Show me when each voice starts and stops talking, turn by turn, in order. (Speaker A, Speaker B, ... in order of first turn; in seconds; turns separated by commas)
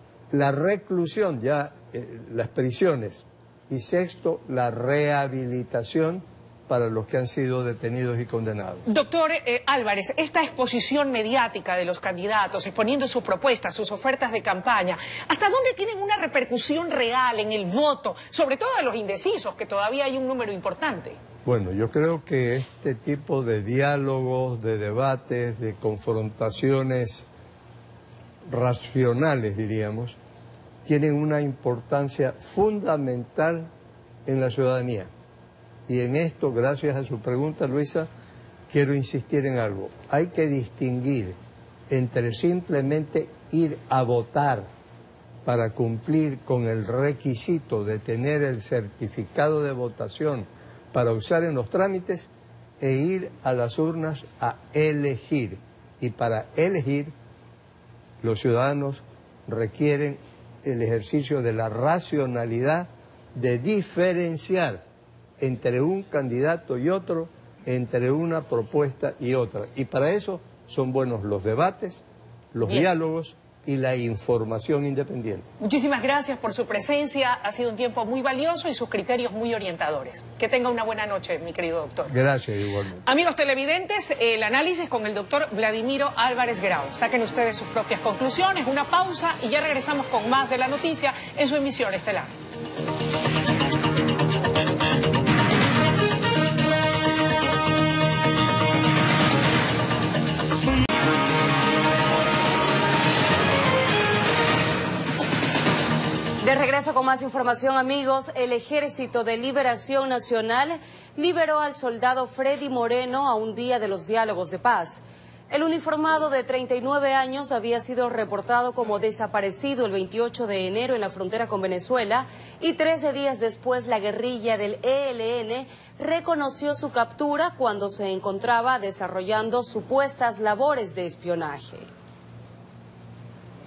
Speaker A: 0.3-8.8, Speaker B: 8.9-21.2, Speaker A: 21.4-27.3, Speaker A: 28.5-30.2, Speaker A: 30.9-33.7, Speaker A: 34.3-35.1, Speaker A: 35.9-38.1, Speaker A: 38.7-41.4, Speaker A: 41.9-44.7, Speaker A: 45.5-57.1, Speaker A: 58.2-64.8, Speaker A: 65.4-72.0, Speaker A: 72.5-75.5, Speaker B: 75.6-82.1, Speaker A: 82.1-83.0, Speaker B: 83.1-92.3, Speaker C: 106.4-131.9